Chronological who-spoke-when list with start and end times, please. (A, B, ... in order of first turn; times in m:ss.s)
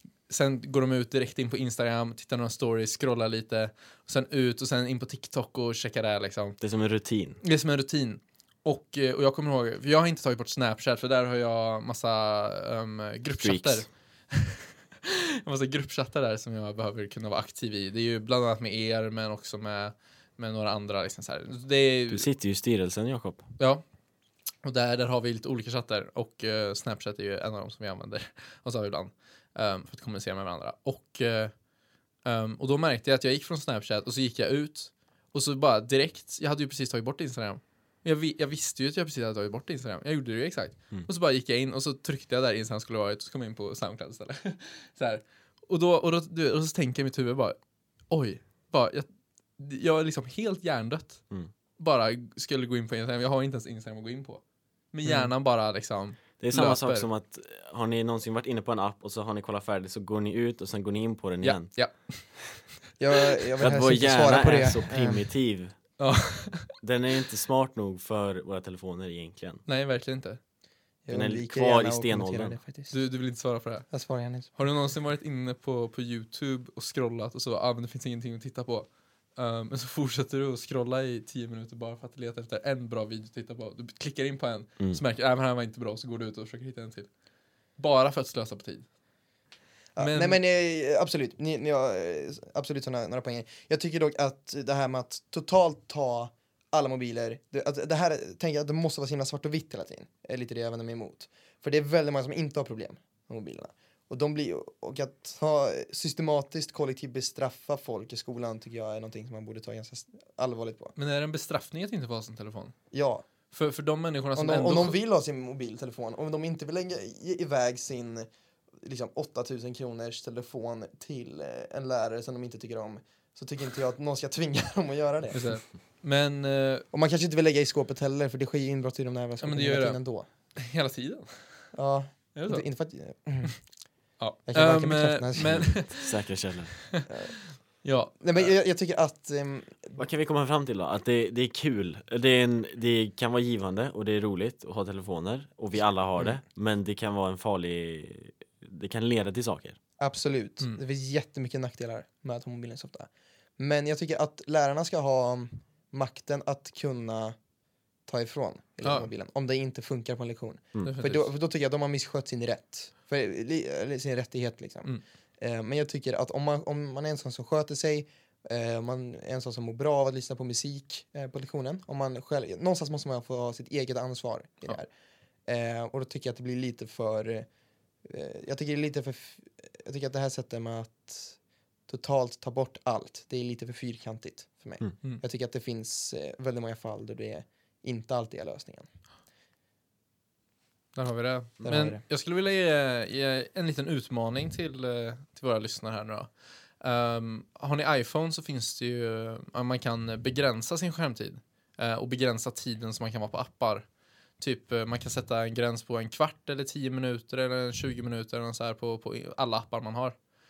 0:00.3-0:06.6 A
0:06.6-0:07.4 B
0:07.4-0:22.3 A
0:13.4-0:13.8 B
0:22.1-0:23.5 B
0:23.6-0:23.8 A
0:24.6-0:31.5 A
0:32.2-0:47.6 A
0:48.1-0:51.2 A
0:51.8-0:54.4 A
0:54.9-0:57.1 A
0:55.0-0:55.3 C
0:56.4-1:01.8 B
1:01.4-1:02.6 A
1:03.0-1:05.3 C
1:03.6-1:05.8 B
1:06.0-1:06.7 A
1:06.8-1:09.6 B
1:09.7-1:10.4 A
1:11.1-1:12.9 C
1:11.1-1:12.6 B
1:12.9-1:13.9 A
1:13.9-1:14.6 C
1:14.5-1:27.1 A
1:27.8-1:28.9 A
1:30.0-1:50.9 C
1:30.0-1:30.4 A
1:51.0-1:52.8 A
1:52.9-1:53.2 C
1:53.5-1:55.0 A
1:54.4-1:58.3 C
1:58.8-2:05.4 C
2:05.3-2:06.9 A
2:06.9-2:10.3 C
2:09.4-2:10.0 A
2:10.6-2:11.6 A
2:11.7-2:13.6 C
2:12.4-2:12.7 A
2:14.2-2:16.1 A
2:14.5-2:15.9 C
2:15.5-2:16.8 B
2:16.9-2:18.5 A
2:17.1-2:17.4 C
2:18.2-2:20.0 C
2:20.0-2:29.8 B
2:30.0-2:37.4 C
2:38.1-2:54.9 C
2:38.8-2:39.1 A
2:40.8-2:41.3 A
2:55.5-2:57.5 C
2:58.0-3:08.9 C
3:11.0-3:23.9 A
3:11.6-3:12.0 C
3:24.4-3:30.2 A